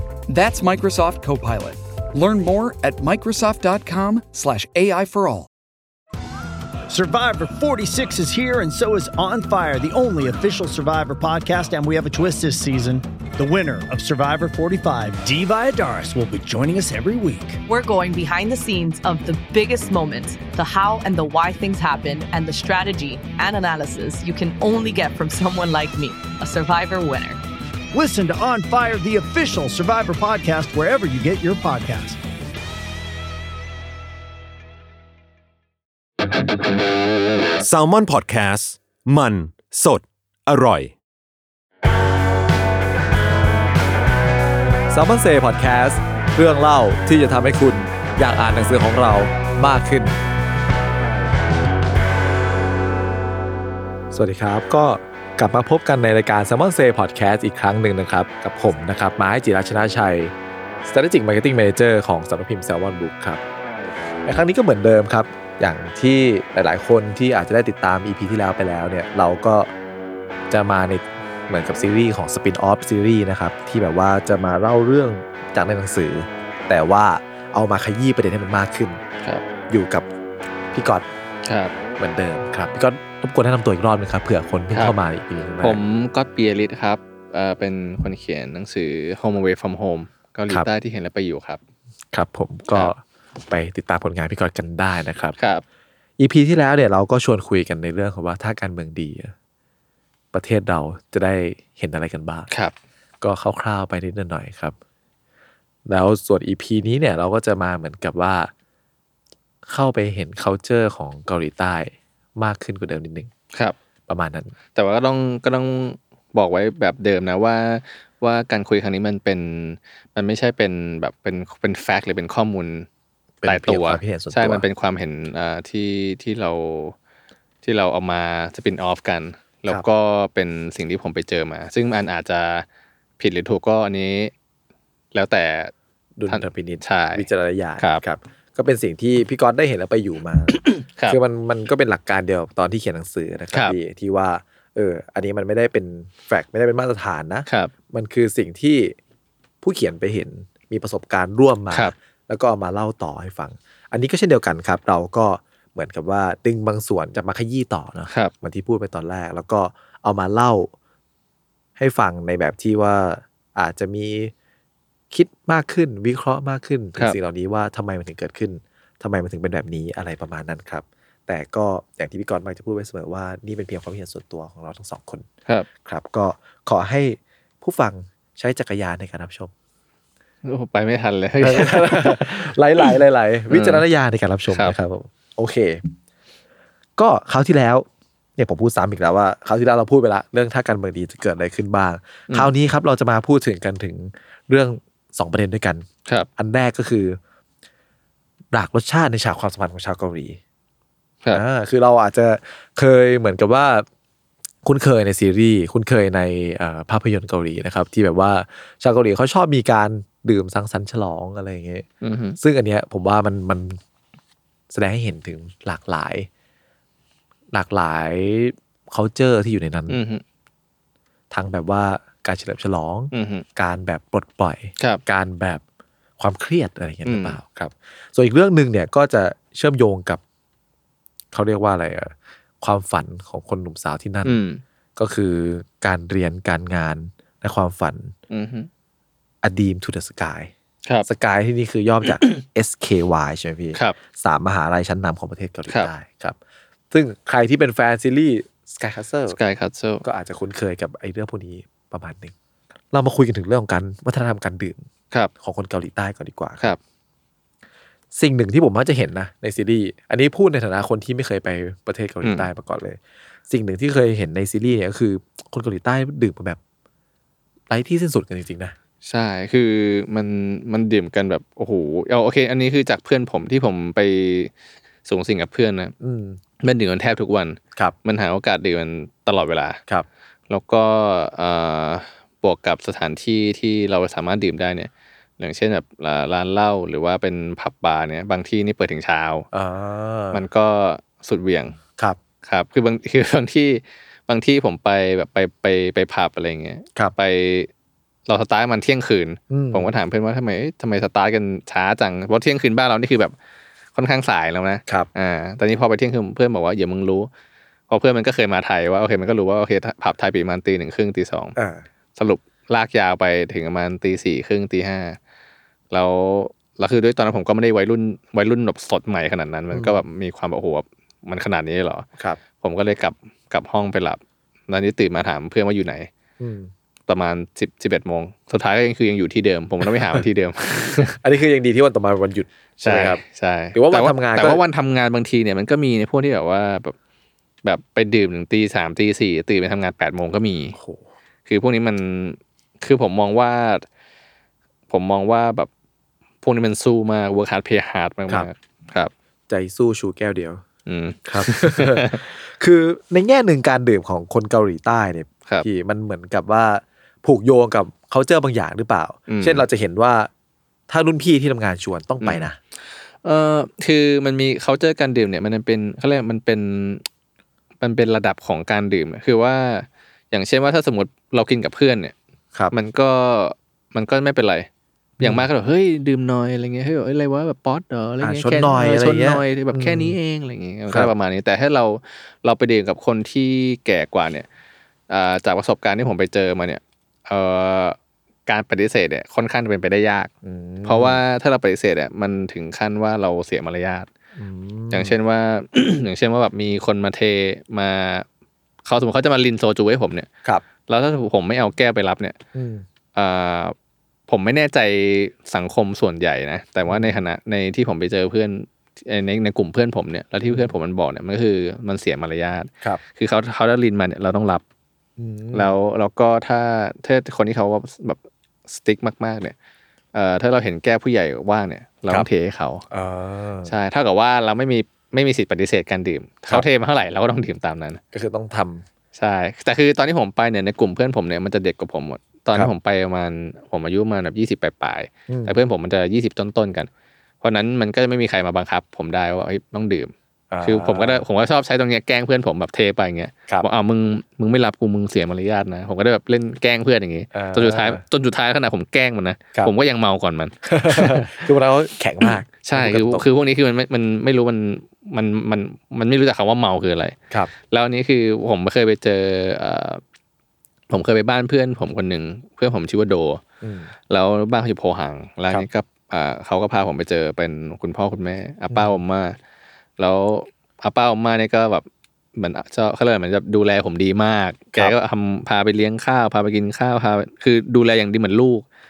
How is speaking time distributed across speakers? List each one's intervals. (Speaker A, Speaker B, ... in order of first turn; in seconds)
Speaker A: 0.3-5.5
Speaker B: 6.9-17.6, 27.9-32.2
Speaker C: 17.7-27.4
Speaker D: 37.6-41.0
Speaker E: 44.9-50.2, 54.1-63.4, 64.2-69.7, 70.5-79.0, 79.7-80.1, 80.7-81.1, 82.0-85.8, 92.1-95.4, 96.2-99.3, 100.3-102.5, 103.2-104.7, 105.8-108.5, 109.7-113.3, 114.1-114.5, 123.4-124.7, 136.2-149.0, 149.6-160.7, 161.8-164.3, 165.1-175.3, 175.8-179.5, 181.4-185.9, 187.0-197.2, 198.5-200.4, 201.3-203.8, 204.6-211.8, 212.4-213.8, 214.7-216.3, 217.5-220.0, 221.3-225.6, 226.2-230.2, 231.3-234.4, 234.9-238.1, 239.4-240.5, 241.1-246.4, 246.9-249.4, 250.0-252.3, 252.9-254.8, 255.4-256.7, 258.1-266.6, 267.7-268.7, 276.0-276.4, 289.5-290.4, 291.9-292.2, 299.5-299.9, 311.6-311.8, 319.7-320.0, 326.4-326.7, 329.8-330.2, 331.2-333.2, 333.7-334.6, 340.8-341.0, 349.5-350.6, 351.2-360.3, 360.9-362.6, 375.2-375.4, 378.2-380.1, 390.4-391.2, 394.4-395.1, 402.5-402.8, 406.9-407.2, 410.4-410.7, 415.2-415.7, 422.9-423.7, 428.1-428.9, 435.3-435.6, 440.5-441.2, 447.3-448.0, 450.6-453.3, 463.6-463.9
Speaker F: 81.4-81.7, 85.6-91.6, 95.4-95.6, 114.7-122.9, 123.4-126.9, 127.6-132.6, 133.2-134.3, 135.1-135.7, 136.3-138.0, 140.7-141.2, 180.4-182.9, 183.5-183.8, 212.0-212.4, 219.9-220.2, 223.1-223.4, 227.0-227.4, 234.2-234.6, 238.3-238.7, 249.3-250.0, 262.2-262.5, 269.0-274.5, 275.1-275.9, 276.6-279.8, 280.5-289.5, 290.3-291.8, 292.4-297.7, 298.3-303.3, 303.9-307.3, 307.9-311.6, 312.1-315.2, 315.9-322.1, 322.6-326.1, 327.1-331.2, 332.8-336.9, 337.6-340.8, 341.4-343.8, 344.9-345.7, 346.4-349.1, 350.9-352.2, 359.3-359.6, 362.2-362.5, 363.2-367.0, 367.8-372.1, 372.7-374.7, 375.2-384.5, 385.1-390.3, 390.8-394.1, 394.9-398.2, 398.9-400.3, 400.9-402.4, 403.1-403.7, 404.3-414.6, 415.5-419.5, 420.1-422.8, 423.6-428.0, 429.1-436.9, 437.4-440.1, 440.6-451.4, 452.2-457.2, 457.7-460.0, 460.9-463.4, 464.1-469.4, 470.0-478.6